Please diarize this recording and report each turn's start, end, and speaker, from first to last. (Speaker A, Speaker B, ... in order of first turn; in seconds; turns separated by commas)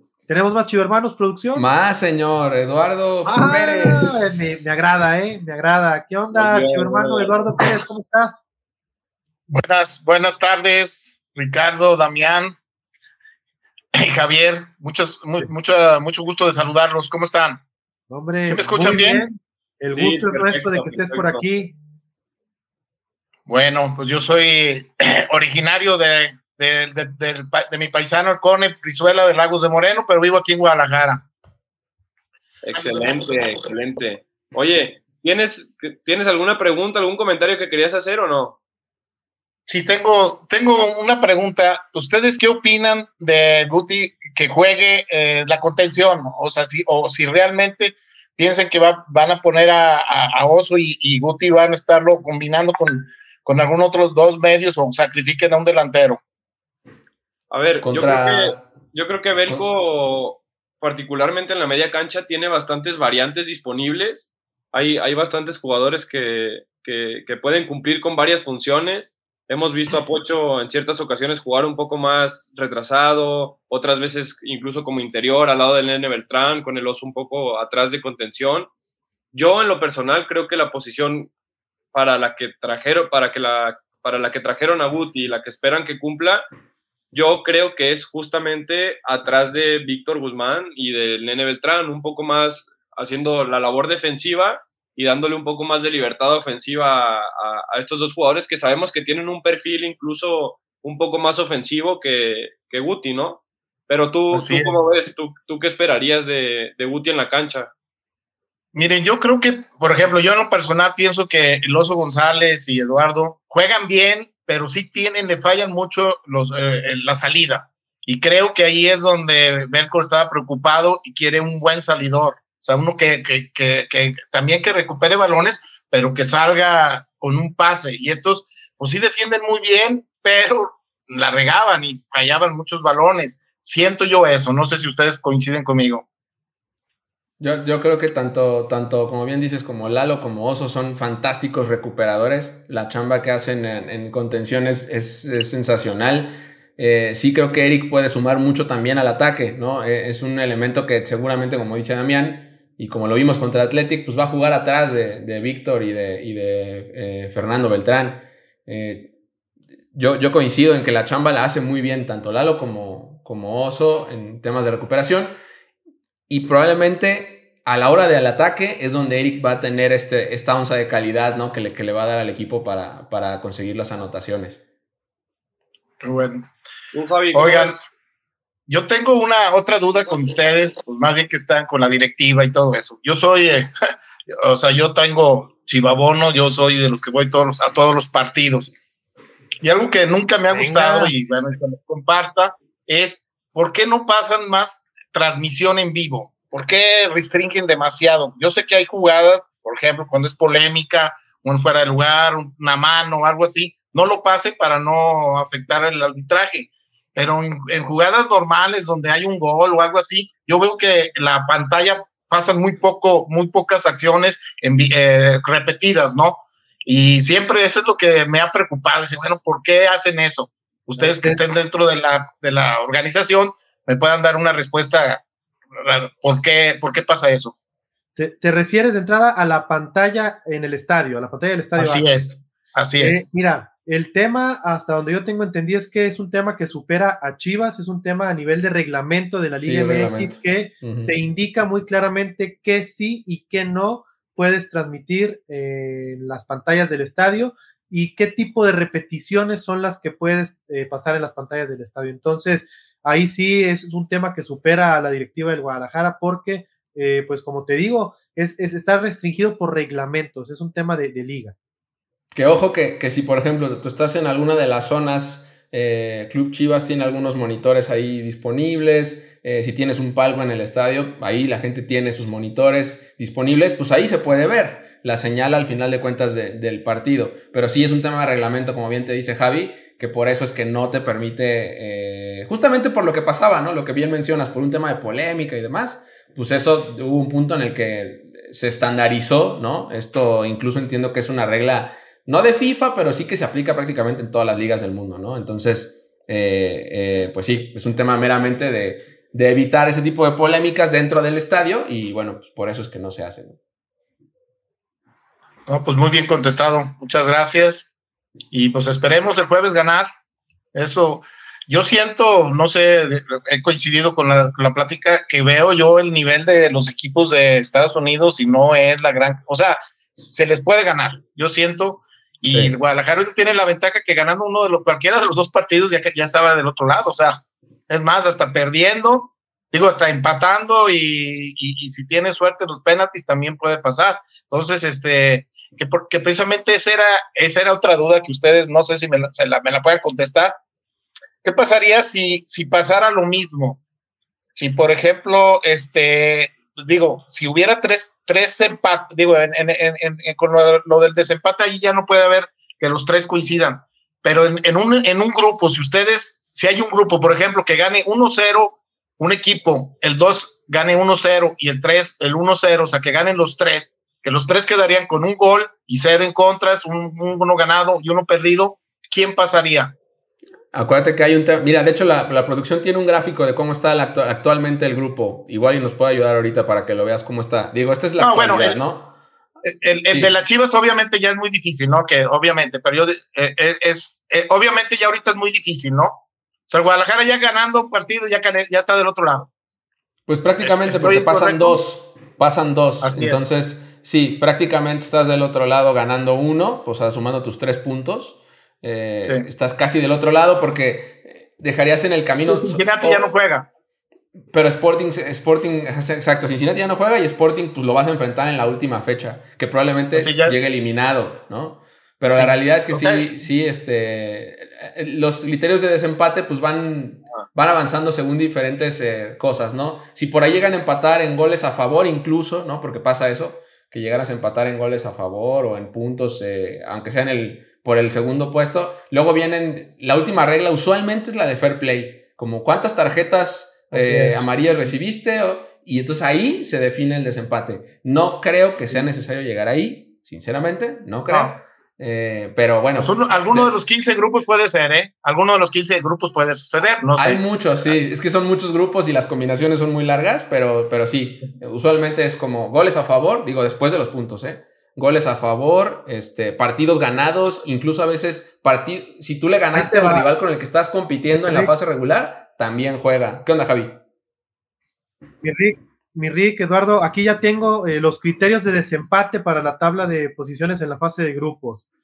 Speaker A: 0.3-1.7, Speaker B: 1.5-4.4, Speaker A: 3.2-8.4, Speaker C: 6.3-7.4, Speaker D: 9.5-12.6, Speaker D: 13.9-17.6, Speaker A: 18.1-21.7, Speaker D: 18.4-19.2, Speaker C: 19.9-21.4, Speaker D: 23.5-31.2, Speaker C: 32.6-38.6, Speaker D: 32.8-33.5, Speaker D: 39.7-56.2, Speaker C: 57.5-78.7, Speaker B: 57.8-58.6, Speaker C: 79.3-81.3, Speaker C: 81.9-86.5, Speaker C: 87.1-107.7, Speaker D: 104.3-104.8, Speaker D: 108.7-136.0, Speaker B: 137.4-159.1, Speaker B: 159.9-165.3, Speaker B: 166.3-174.6, Speaker D: 176.0-176.5, Speaker C: 176.9-177.8, Speaker D: 177.3-177.8, Speaker D: 178.7-183.7, Speaker D: 184.3-188.7, Speaker D: 189.6-225.2, Speaker A: 190.5-191.1, Speaker A: 220.9-221.4, Speaker D: 225.8-227.5, Speaker A: 228.2-232.1, Speaker D: 231.8-233.3, Speaker A: 233.0-261.5, Speaker B: 239.6-241.2, Speaker B: 262.3-303.6, Speaker D: 305.7-307.9, Speaker D: 308.5-310.1, Speaker D: 310.7-340.6, Speaker B: 322.5-322.7, Speaker D: 341.4-343.8, Speaker D: 344.5-369.9, Speaker B: 370.7-379.1, Speaker D: 378.2-378.8, Speaker D: 379.6-389.5, Speaker B: 390.3-403.2, Speaker D: 390.6-391.8, Speaker D: 393.0-393.4, Speaker D: 402.4-403.7, Speaker B: 404.5-443.7, Speaker D: 410.1-410.6, Speaker D: 412.3-413.2, Speaker A: 433.9-434.9, Speaker D: 441.3-441.5, Speaker D: 442.9-447.4, Speaker B: 447.1-464.0, Speaker A: 459.7-460.2, Speaker A: 461.4-461.7, Speaker A: 465.4-471.8